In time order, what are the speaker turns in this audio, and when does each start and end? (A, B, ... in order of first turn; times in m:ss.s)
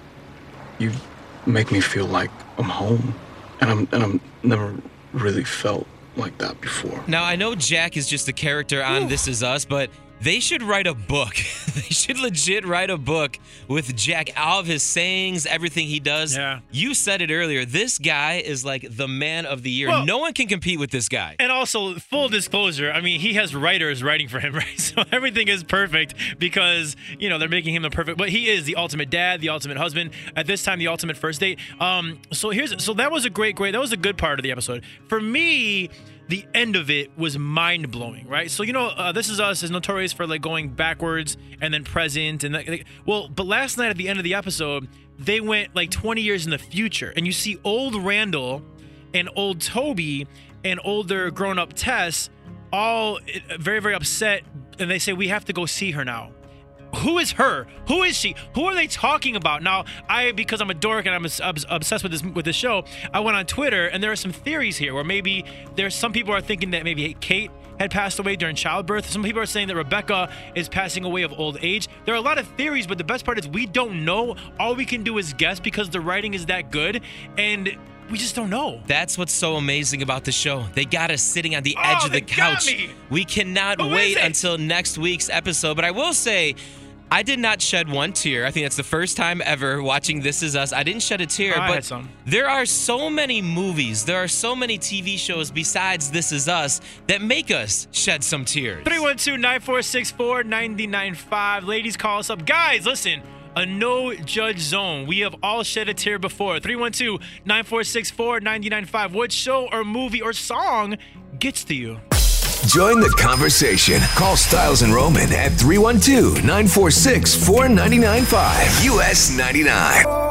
0:00.8-0:07.0 A
0:07.1-0:21.4 B
0:16.3-0:16.6 C
0:19.8-0:20.1 C
0:21.4-0:56.3 C
0:56.9-1:18.9 C
1:18.9-1:26.6 B
1:21.8-1:23.0 C
1:23.8-1:24.4 C
1:27.1-1:39.0 B
1:31.5-1:32.1 C
1:38.8-1:52.0 C
1:52.6-2:00.1 D